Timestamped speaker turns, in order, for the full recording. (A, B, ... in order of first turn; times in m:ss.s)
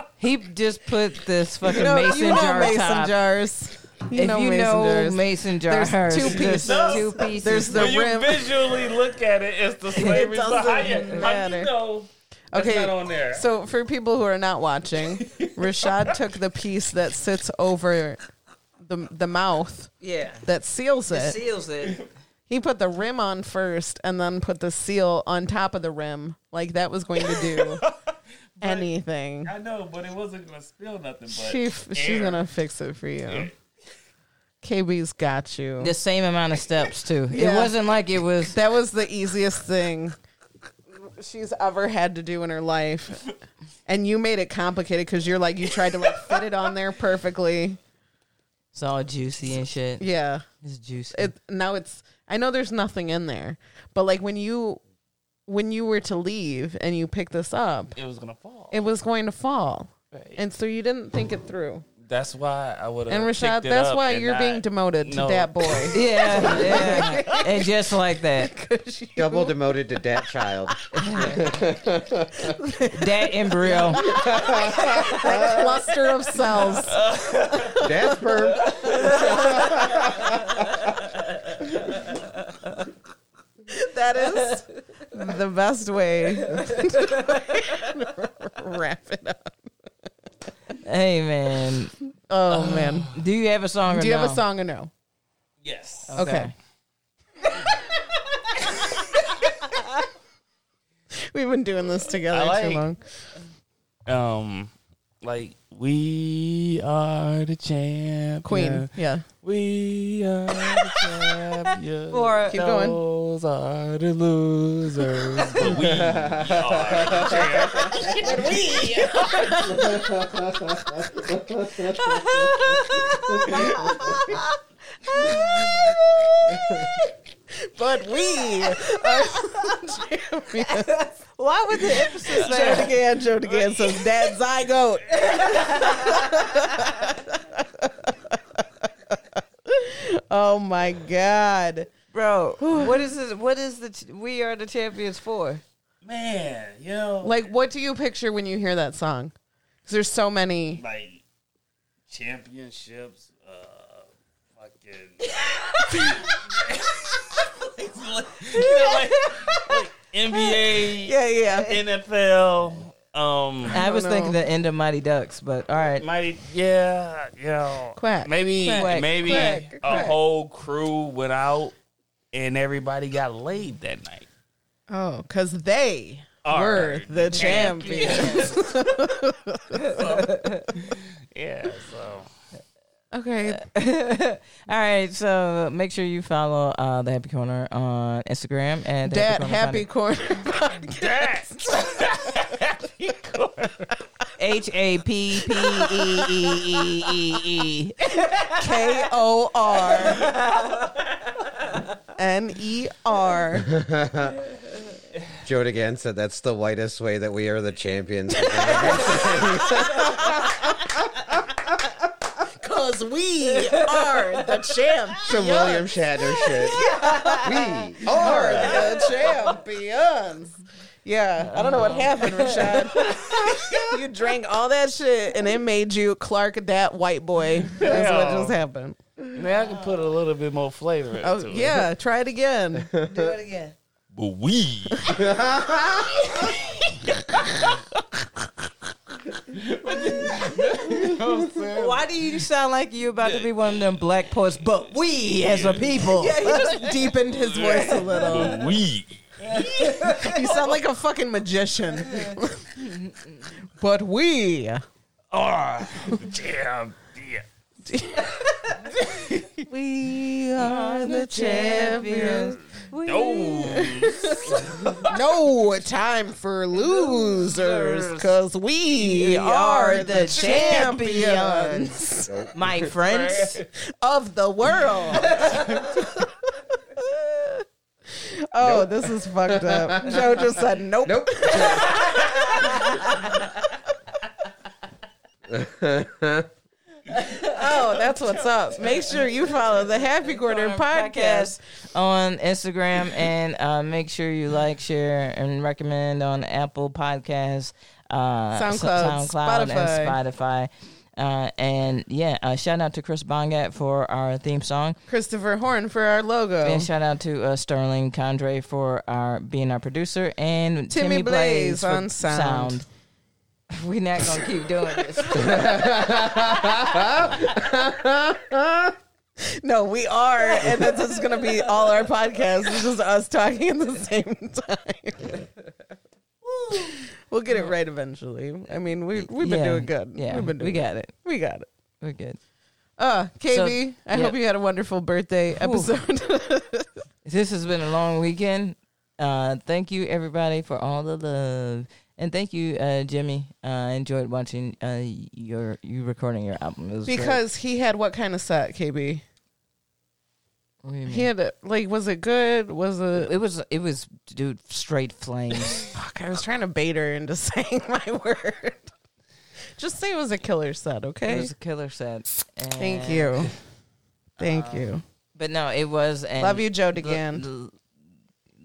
0:00.2-0:03.2 A
0:01.6-0:08.9 B
0:04.1-0:07.9 A
0:06.2-0:13.5 C
0:09.9-0:11.7 B
0:10.9-0:11.2 A
0:12.5-0:18.2 B
0:15.2-0:16.2 C
0:18.8-0:19.9 B
0:20.0-0:20.5 A
0:20.4-0:21.4 B
0:21.1-0:22.0 A
0:21.8-0:22.1 C
0:22.5-0:27.8 B
0:27.2-0:28.0 C
0:28.6-0:28.9 C
0:28.6-0:29.5 B
0:29.4-0:32.4 C
0:31.3-0:33.5 B
0:33.3-0:33.6 C
0:34.6-0:35.9 B
0:35.8-0:38.6 A
0:37.3-0:37.7 B
0:38.5-0:40.2 B
0:40.9-0:43.3 B
0:43.9-0:47.8 B
0:48.7-0:50.0 A
0:50.0-0:50.4 B
0:50.6-0:51.3 A
0:51.1-0:54.8 B
0:55.5-0:58.0 B
0:58.0-0:58.8 C
0:58.7-1:01.9 B
1:00.1-1:00.4 C
1:02.0-1:07.4 C
1:03.1-1:10.0 B
1:05.9-1:08.5 A
1:09.2-1:12.6 D
1:11.0-1:11.6 B
1:11.0-1:11.4 A
1:12.3-1:17.0 B
1:12.9-1:14.1 A
1:14.1-1:15.7 D
1:16.9-1:17.7 C
1:17.7-1:20.3 D
1:17.8-1:18.2 B
1:18.7-1:19.4 C
1:18.8-1:19.5 B
1:23.7-1:29.6 B
1:26.5-1:27.6 A
1:30.8-1:31.9 A
1:32.3-1:33.2 B
1:32.6-1:33.1 C
1:33.1-1:34.4 A
1:33.9-1:34.9 B
1:35.6-1:36.3 C
1:36.1-1:36.5 A
1:36.2-1:36.5 B
1:41.1-1:43.0 B
1:42.2-1:42.8 C
1:44.1-1:44.7 C
1:45.2-1:59.7 C
1:48.4-1:49.3 B
1:50.6-1:51.3 B
1:52.1-1:52.6 A
1:52.5-1:53.0 B
1:55.2-1:55.7 B
1:56.0-1:57.4 D
1:57.1-2:04.5 B
1:59.7-2:02.6 D
2:02.4-2:04.4 A
2:03.3-2:04.4 D
2:05.1-2:06.9 B
2:07.5-2:11.0 B
2:10.7-2:12.9 A
2:11.7-2:21.9 B
2:15.2-2:17.0 A
2:22.1-2:25.6 A
2:22.6-2:23.1 B
2:26.0-2:27.4 C
2:27.2-2:29.3 B
2:29.8-2:30.8 B
2:30.8-2:31.2 C
2:32.1-2:43.8 C
2:36.0-2:36.2 B
2:38.5-2:39.8 B
2:40.3-2:41.8 B
2:43.7-2:44.4 B
2:43.7-2:46.0 A
2:46.0-2:51.7 C
2:48.0-2:50.2 B
2:48.6-2:50.1 A
2:52.3-2:54.3 C
2:54.9-3:00.0 B
2:56.4-2:58.6 C
2:57.4-2:58.6 A
2:59.7-3:00.7 A
2:59.8-3:02.3 C
3:03.1-3:03.6 B
3:03.5-3:09.9 A
3:09.1-3:11.4 B
3:10.9-3:14.0 C
3:14.4-3:18.5 A
3:15.9-3:16.3 B
3:18.5-3:20.3 B
3:20.2-3:20.7 A
3:22.2-3:23.7 B
3:23.6-3:24.4 D
3:25.4-3:30.8 D
3:28.4-3:30.8 B
3:32.3-3:35.8 B
3:33.7-3:34.3 A
3:35.2-3:36.9 D
3:35.4-3:35.7 A
3:36.5-3:49.0 B
3:36.7-3:39.4 A
3:37.4-3:38.9 D
3:41.4-3:43.4 A
3:47.8-3:48.6 C
3:49.3-3:51.9 C
3:51.2-3:52.9 B
3:52.9-3:53.3 D
3:53.0-3:53.8 A
3:54.1-3:55.2 C
3:55.1-3:56.2 D
3:59.5-4:02.1 C
4:00.3-4:01.0 A
4:01.7-4:06.9 A
4:03.2-4:03.5 C
4:05.4-4:06.1 C
4:06.1-4:08.7 B
4:06.6-4:10.6 C
4:09.6-4:10.4 A
4:10.0-4:12.8 B
4:13.7-4:14.8 B
4:15.3-4:17.4 C
4:17.8-4:18.7 B
4:18.9-4:19.6 C
4:19.7-4:22.6 B
4:20.6-4:25.0 A
4:21.5-4:25.1 C
4:24.0-4:32.4 B
4:26.8-4:28.4 A
4:29.0-4:33.6 A
4:32.3-4:32.7 D
4:33.0-4:33.7 C
4:33.7-4:43.1 B
4:35.4-4:35.8 A
4:38.6-4:38.9 D
4:39.5-4:40.4 D
4:41.0-4:42.0 D
4:41.9-4:43.2 A
4:42.8-4:43.3 D
4:45.5-4:46.5 D
4:47.3-4:51.6 B
4:50.2-5:05.0 A
4:58.5-5:00.2 B
5:05.1-5:06.9 B
5:06.6-5:12.9 A
5:10.9-5:12.7 B
5:13.7-5:15.6 A
5:15.4-5:18.9 D
5:19.4-5:25.5 B
5:26.7-5:31.7 B
5:29.2-5:31.1 A
5:32.0-5:32.4 A
5:33.0-5:36.9 B
5:33.5-5:34.4 A
5:35.6-5:35.9 A
5:37.2-5:47.4 A
5:47.1-5:49.2 B
5:50.8-5:51.3 A
5:51.1-5:53.3 B
5:53.2-5:55.9 A
5:55.8-5:58.9 B
5:59.8-6:01.5 B
6:01.3-6:03.5 A
6:02.8-6:03.5 B
6:04.4-6:07.8 A
6:04.4-6:05.0 B
6:06.4-6:07.4 B